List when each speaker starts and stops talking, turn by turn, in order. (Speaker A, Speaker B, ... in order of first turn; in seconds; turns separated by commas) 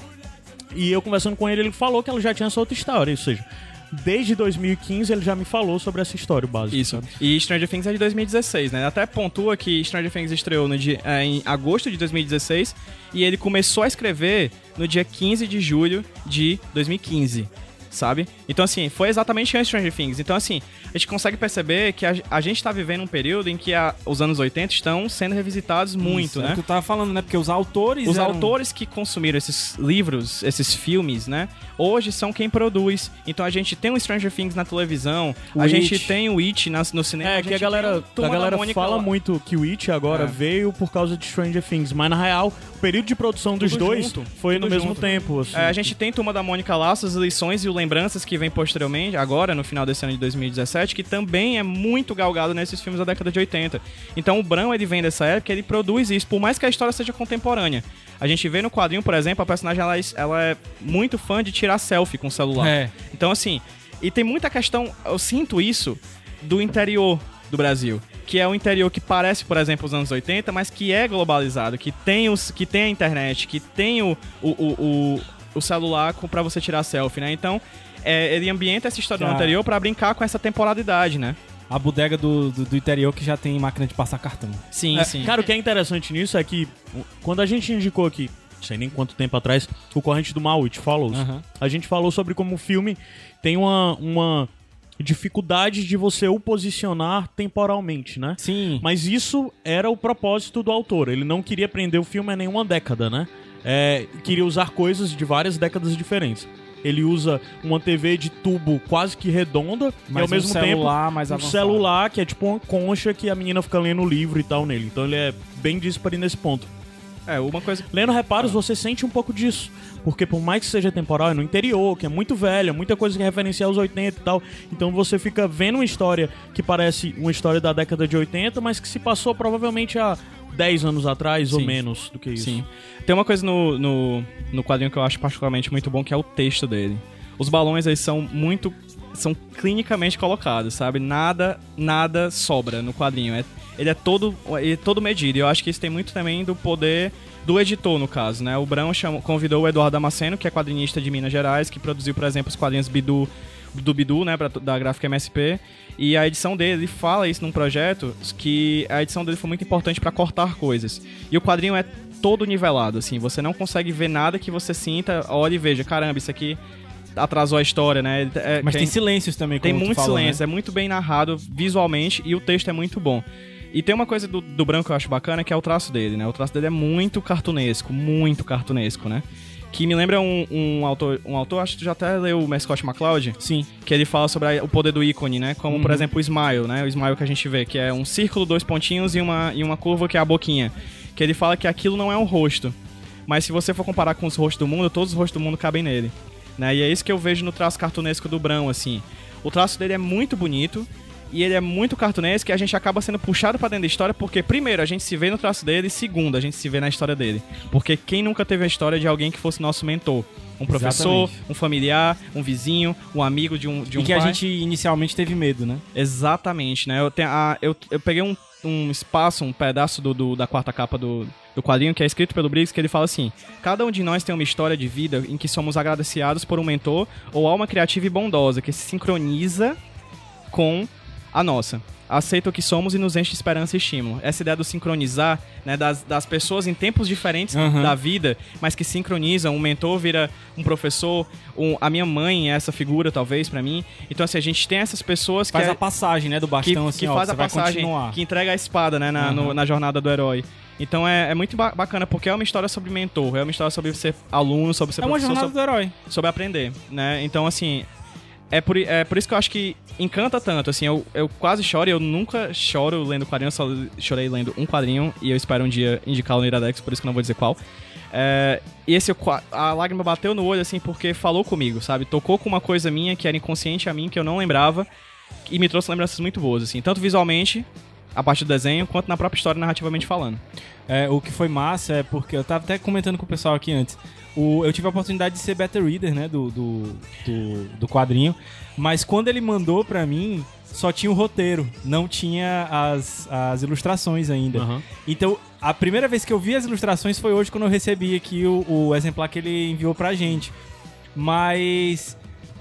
Speaker A: 0.7-7.1, Speaker B: 6.7-26.6, Speaker C: 26.0-28.5, Speaker B: 28.0-39.1, Speaker C: 35.5-36.1, Speaker A: 37.2-45.9, Speaker B: 40.1-40.3, Speaker B: 43.6-81.4, Speaker C: 62.5-62.9, Speaker C: 79.2-79.6, Speaker C: 81.7-85.2, Speaker B: 84.7-85.3, Speaker A: 85.0-116.7, Speaker C: 91.1-91.4, Speaker C: 98.4-98.9, Speaker C: 110.1-111.9, Speaker B: 117.3-117.9, Speaker A: 117.9-132.6, Speaker B: 131.5-131.8, Speaker B: 132.3-166.6, Speaker B: 167.1-168.9, Speaker C: 168.6-170.4, Speaker B: 169.6-214.4, Speaker C: 183.4-183.7, Speaker C: 185.7-186.1, Speaker C: 210.7-211.4, Speaker C: 213.9-215.8, Speaker B: 215.9-229.8, Speaker B: 230.5-245.8, Speaker C: 237.5-238.0, Speaker C: 245.5-248.2, Speaker B: 246.6-255.5, Speaker C: 249.1-249.6, Speaker C: 255.0-255.9, Speaker B: 256.1-257.9, Speaker B: 258.5-267.6, Speaker B: 268.1-274.9, Speaker B: 275.4-280.4, Speaker C: 280.9-300.5, Speaker A: 294.5-294.8, Speaker C: 301.1-302.2